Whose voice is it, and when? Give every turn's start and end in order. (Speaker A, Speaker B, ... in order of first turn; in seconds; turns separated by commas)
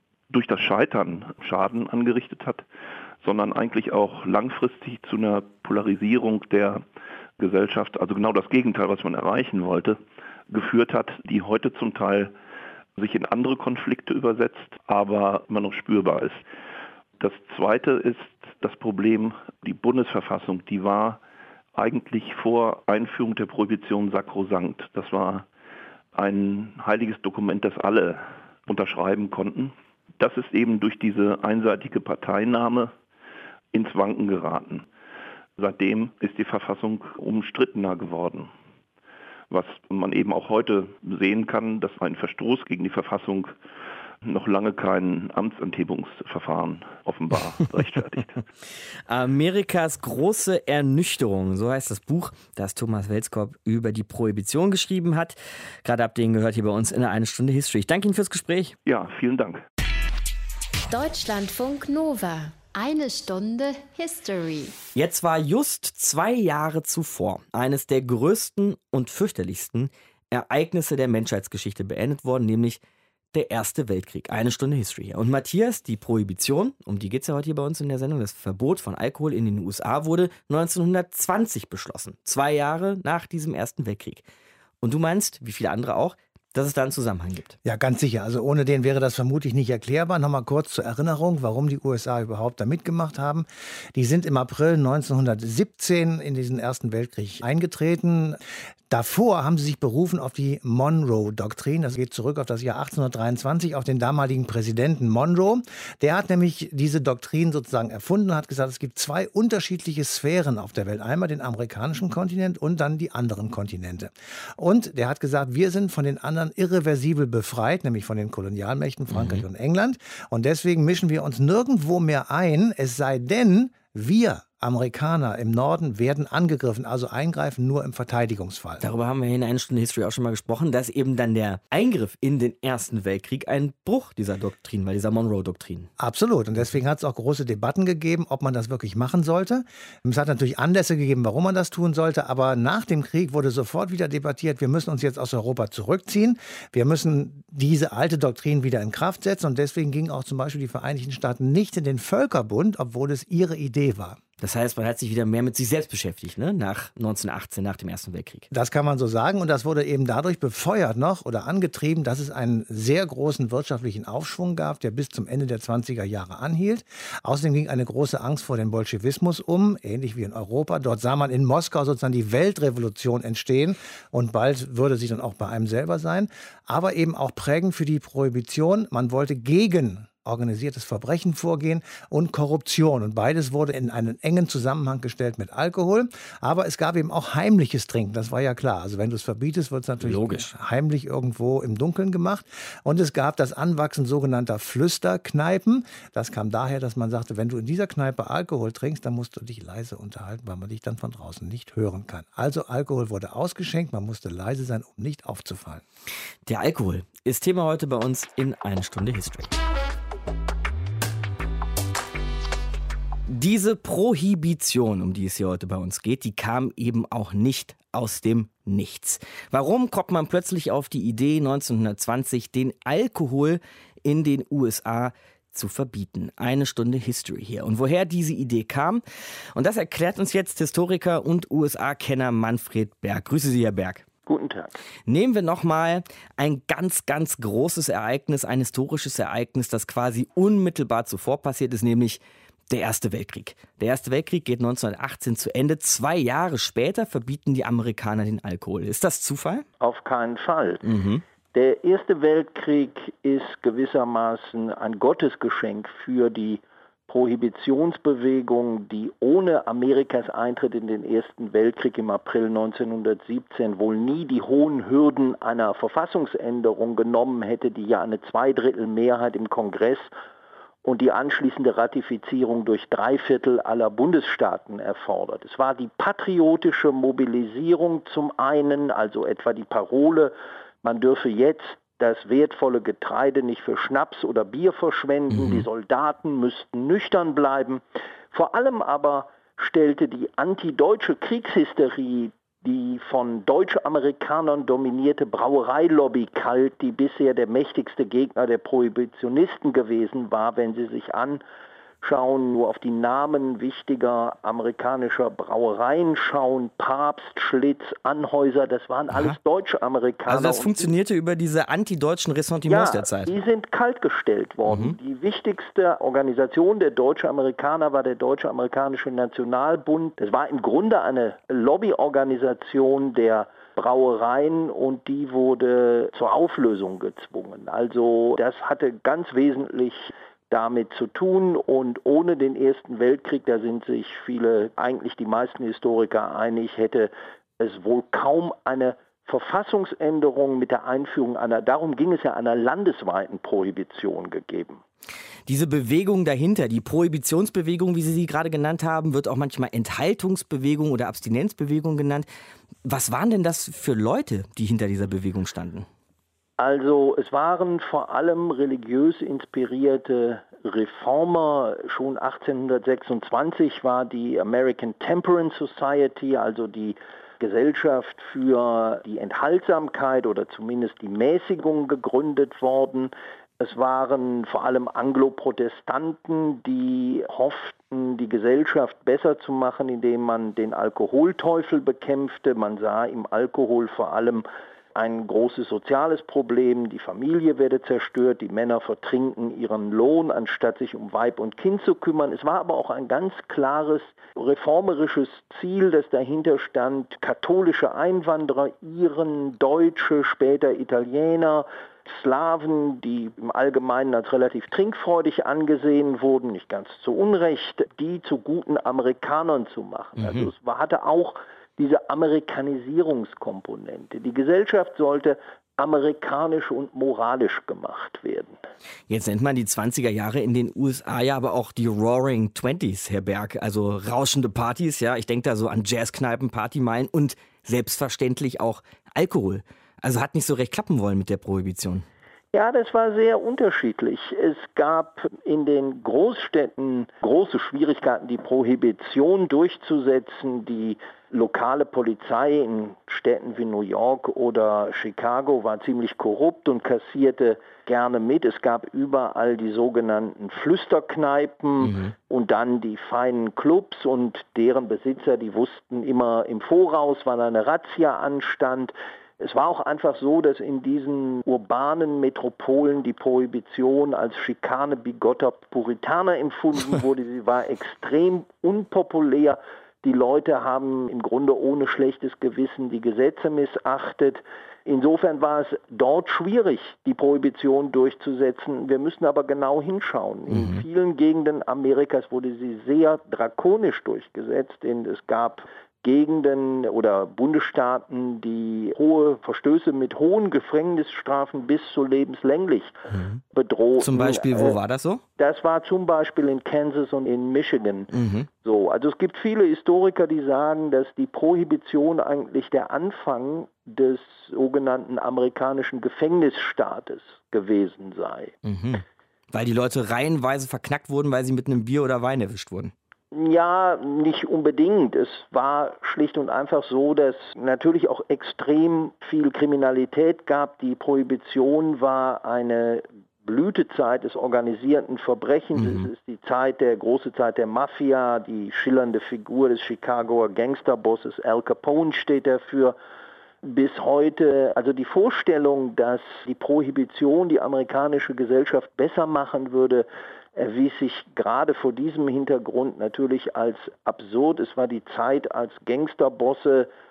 Speaker A: 0.3-2.6, Speaker A: 3.2-6.8, Speaker A: 7.4-10.0, Speaker A: 10.5-12.3, Speaker A: 13.0-16.4, Speaker A: 17.2-21.2, Speaker A: 21.8-25.4, Speaker A: 26.1-32.9, Speaker A: 33.7-34.9, Speaker A: 35.6-38.5, Speaker A: 39.5-43.5, Speaker A: 44.2-48.4, Speaker B: 49.1-58.7, Speaker A: 58.9-59.6, Speaker C: 60.9-64.8, Speaker B: 65.0-72.8, Speaker B: 73.3-84.2, Speaker B: 84.8-87.6, Speaker D: 87.7-128.8, Speaker B: 119.1-119.4, Speaker B: 128.8-135.9, Speaker D: 136.0-154.2, Speaker B: 154.4-158.5, Speaker D: 158.5-205.8, Speaker B: 190.0-190.5, Speaker B: 206.5-209.5, Speaker B: 213.3-229.0, Speaker B: 229.6-234.1, Speaker E: 234.3-234.8, Speaker B: 235.1-249.7, Speaker E: 249.8-250.8, Speaker B: 250.8-251.2, Speaker E: 251.5-270.1, Speaker E: 270.8-301.4, Speaker B: 285.3-285.6, Speaker E: 302.0-310.9, Speaker B: 310.3-313.3, Speaker E: 312.7-344.8, Speaker B: 314.7-315.0, Speaker B: 345.5-352.3, Speaker B: 352.9-355.9, Speaker E: 356.6-418.6, Speaker B: 410.2-410.5, Speaker B: 419.1-432.1, Speaker E: 432.5-493.0, Speaker B: 451.8-452.1, Speaker B: 480.5-480.8, Speaker B: 493.1-493.4, Speaker E: 493.5-494.8, Speaker B: 494.0-495.2, Speaker E: 495.4-508.6, Speaker B: 498.1-498.5, Speaker B: 508.6-512.9, Speaker E: 513.3-533.0, Speaker B: 525.8-526.1, Speaker E: 533.6-546.9